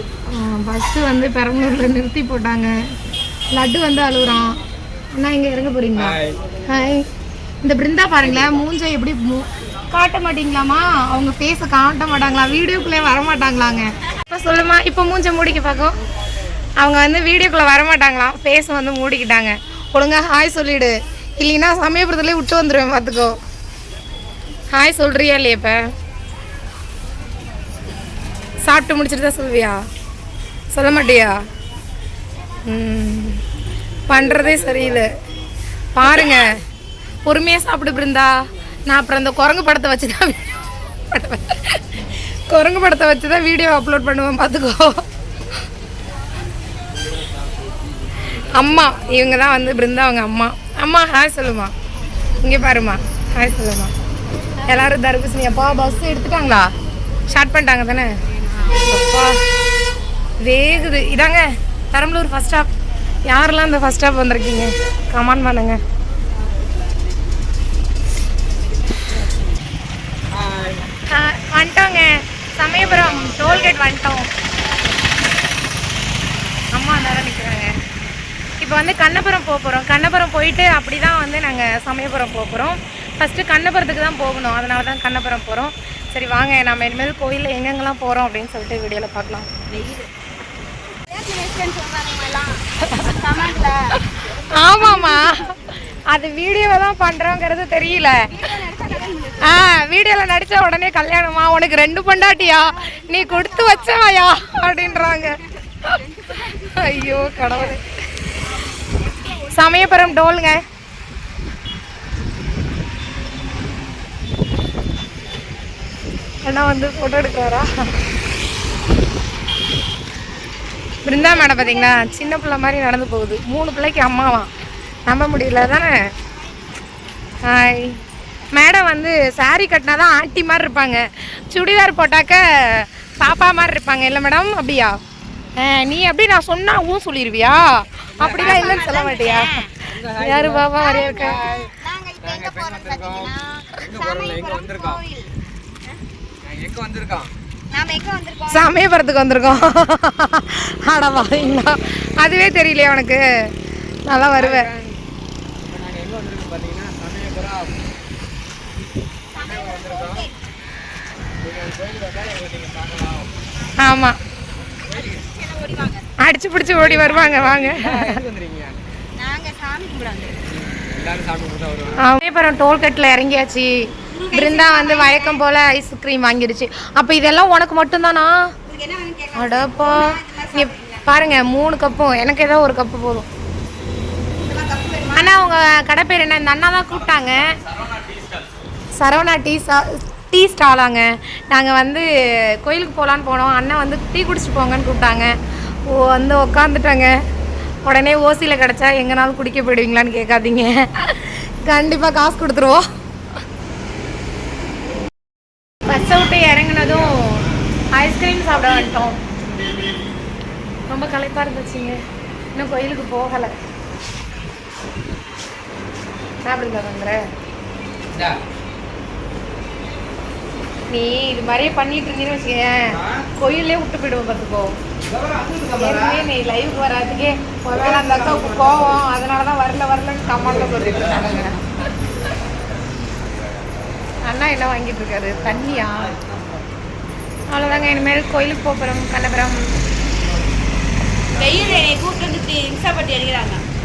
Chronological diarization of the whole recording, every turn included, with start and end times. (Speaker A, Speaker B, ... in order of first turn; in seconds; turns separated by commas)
Speaker A: 0.3-2.7, Speaker A: 3.5-4.5, Speaker A: 5.1-7.1, Speaker B: 5.9-6.4, Speaker A: 7.6-15.9, Speaker A: 16.8-23.4, Speaker A: 24.7-25.8, Speaker A: 28.6-29.8, Speaker A: 30.7-31.4, Speaker A: 32.6-33.4, Speaker A: 34.1-35.1, Speaker B: 34.1-35.0, Speaker A: 35.9-36.6, Speaker A: 37.2-40.4, Speaker A: 41.1-45.0, Speaker A: 48.5-51.7, Speaker A: 52.4-53.9, Speaker A: 54.6-56.7, Speaker A: 57.3-59.4, Speaker A: 60.4-62.7, Speaker A: 63.2-65.8, Speaker B: 70.3-70.8, Speaker A: 71.1-74.3, Speaker B: 72.8-73.6, Speaker A: 76.7-77.7, Speaker A: 78.6-89.5, Speaker C: 89.7-90.1, Speaker C: 91.1-94.0, Speaker A: 94.3-98.3, Speaker C: 94.7-95.4, Speaker C: 98.3-99.7, Speaker A: 99.4-105.3, Speaker C: 102.4-104.0, Speaker C: 104.7-105.2, Speaker C: 105.8-107.7, Speaker A: 106.7-107.8, Speaker C: 109.2-109.5, Speaker A: 109.4-110.6, Speaker A: 116.4-117.7, Speaker A: 121.0-124.5, Speaker A: 125.1-126.0, Speaker A: 127.5-128.0, Speaker A: 128.5-135.0, Speaker A: 135.6-139.5, Speaker B: 138.2-139.0, Speaker C: 138.2-139.7, Speaker B: 139.9-141.7, Speaker A: 140.2-141.4, Speaker C: 140.8-145.3, Speaker B: 142.2-145.0, Speaker B: 146.4-147.3, Speaker C: 147.7-148.7, Speaker A: 148.5-153.2, Speaker A: 154.1-154.7, Speaker B: 154.3-155.0, Speaker B: 155.6-157.8, Speaker B: 159.3-160.3, Speaker C: 159.3-160.3, Speaker B: 161.4-163.3, Speaker A: 163.8-164.2, Speaker C: 164.9-166.1, Speaker A: 166.2-168.2, Speaker B: 166.7-168.8, Speaker C: 169.2-170.4, Speaker B: 170.5-172.0, Speaker A: 172.0-173.7, Speaker C: 174.1-175.4, Speaker A: 174.3-178.3, Speaker C: 178.7-181.1, Speaker A: 179.3-183.3, Speaker C: 184.4-185.4, Speaker A: 185.1-187.5, Speaker A: 189.0-192.1, Speaker A: 192.6-195.3, Speaker A: 195.9-197.1, Speaker A: 197.8-202.8, Speaker A: 205.9-209.2, Speaker A: 210.9-212.0, Speaker A: 212.5-213.5, Speaker A: 216.4-217.2, Speaker A: 220.9-224.8, Speaker A: 225.7-231.6, Speaker A: 234.2-236.1, Speaker A: 237.5-239.7, Speaker C: 241.3-243.6